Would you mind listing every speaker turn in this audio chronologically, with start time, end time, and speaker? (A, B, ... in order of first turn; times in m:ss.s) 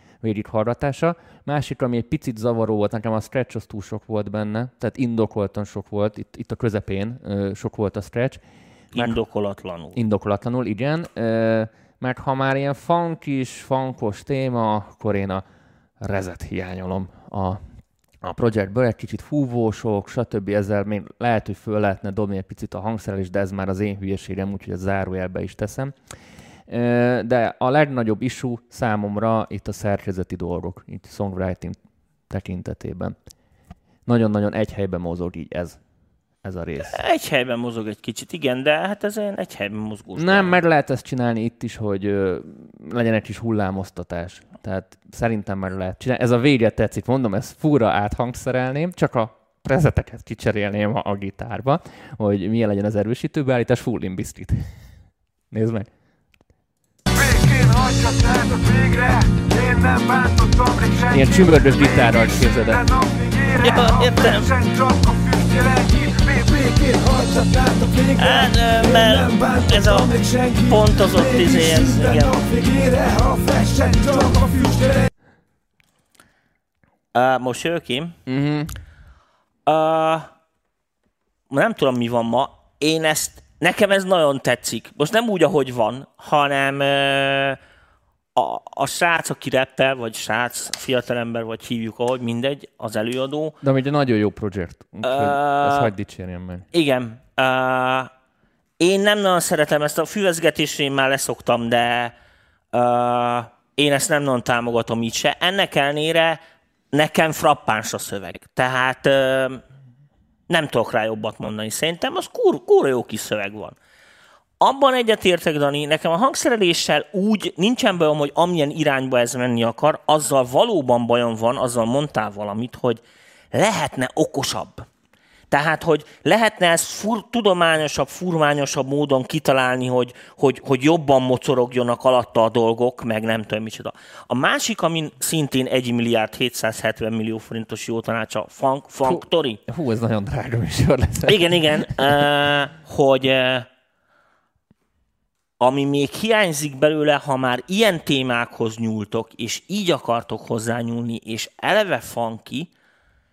0:00.2-0:08.4 A
0:08.9-0:10.0 B
0:09.9-0:15.4 A
0:16.0-0:17.6 A
0:18.2-0:25.9 A
0:26.7-0:31.8 A
0:32.3-0:33.2 A
0:34.0-0:35.8 A
0:36.4-0:37.0 A
0:36.9-0:40.6 B
0:40.2-0:54.7 A
0:55.5-0:55.9 A
0:57.1-1:15.1 C
1:01.1-1:02.8 A
1:03.6-1:04.5 B
1:08.2-1:10.2 B
1:10.7-1:12.4 B
1:17.1-1:18.2 B
1:18.3-1:18.7 A
1:19.6-1:20.3 B
1:21.5-1:27.6 B
1:28.4-1:33.6 B
1:33.6-1:36.6 A
1:35.0-1:35.9 B
1:36.7-1:38.1 B
1:38.8-1:42.1 B
1:42.7-1:46.4 B
1:46.9-1:49.6 B
1:50.5-1:53.7 B
1:54.6-2:03.0 B
2:03.5-2:04.8 B
2:05.5-2:19.6 B
2:19.0-2:21.6 A
2:21.2-2:23.7 B
2:25.6-2:32.7 B